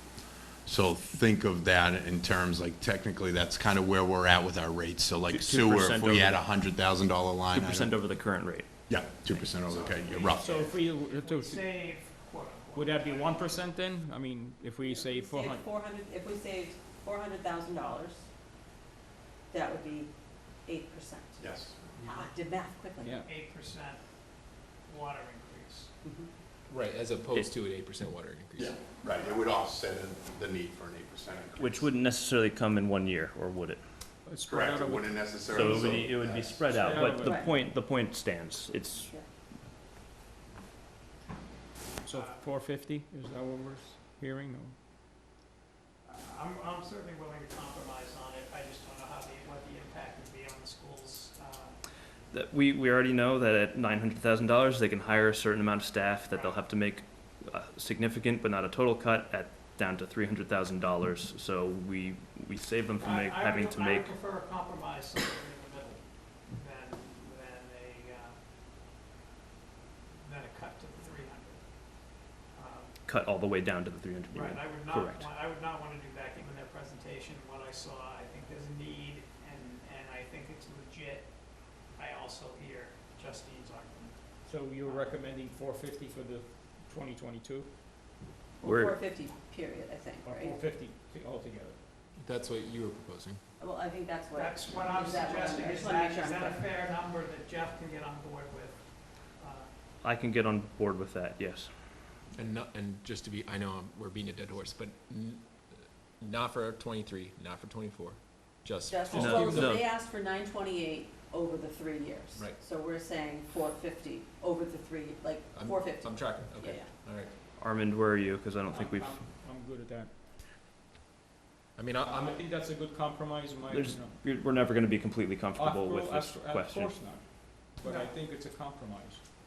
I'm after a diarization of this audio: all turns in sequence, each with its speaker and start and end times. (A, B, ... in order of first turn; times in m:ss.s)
0:00.6-0:08.0 A
0:05.3-0:06.4 B
0:07.5-0:09.4 B
0:08.9-0:10.7 A
0:09.6-0:13.6 C
0:10.4-0:11.7 D
0:12.7-0:15.7 D
0:14.9-0:18.2 E
0:19.5-0:20.1 E
0:20.6-0:23.2 E
0:21.4-0:22.2 A
0:23.0-0:23.3 D
0:23.2-0:24.0 C
0:24.9-0:25.9 C
0:26.0-0:26.3 E
0:26.7-0:28.8 F
0:28.6-0:31.9 A
0:31.6-0:33.8 B
0:34.2-0:35.3 D
0:34.5-0:37.0 A
0:35.5-0:39.1 B
0:36.8-0:37.4 D
0:37.0-0:37.5 E
0:42.0-0:44.8 D
0:42.1-0:42.4 C
0:46.0-0:51.8 C
0:52.3-1:04.1 B
0:56.3-0:56.6 C
1:03.0-1:08.4 C
1:10.2-1:11.6 C
1:12.5-1:13.0 C
1:13.1-1:15.3 B
1:14.3-1:21.3 C
1:22.0-1:24.1 C
1:24.4-1:27.7 D
1:24.8-1:25.2 C
1:28.6-1:30.5 E
1:28.6-1:28.9 B
1:30.2-1:31.8 D
1:32.1-1:33.4 F
1:33.6-1:36.6 E
1:34.3-1:39.7 C
1:40.0-1:41.7 B
1:42.4-1:49.8 F
1:48.9-1:56.9 E
1:49.1-1:49.8 B
1:55.5-1:57.3 F
1:57.6-1:59.2 B
1:58.6-2:00.1 D
2:01.8-2:02.4 F
2:02.0-2:04.2 D
2:03.7-2:06.9 B
2:05.5-2:09.2 D
2:07.8-2:08.1 C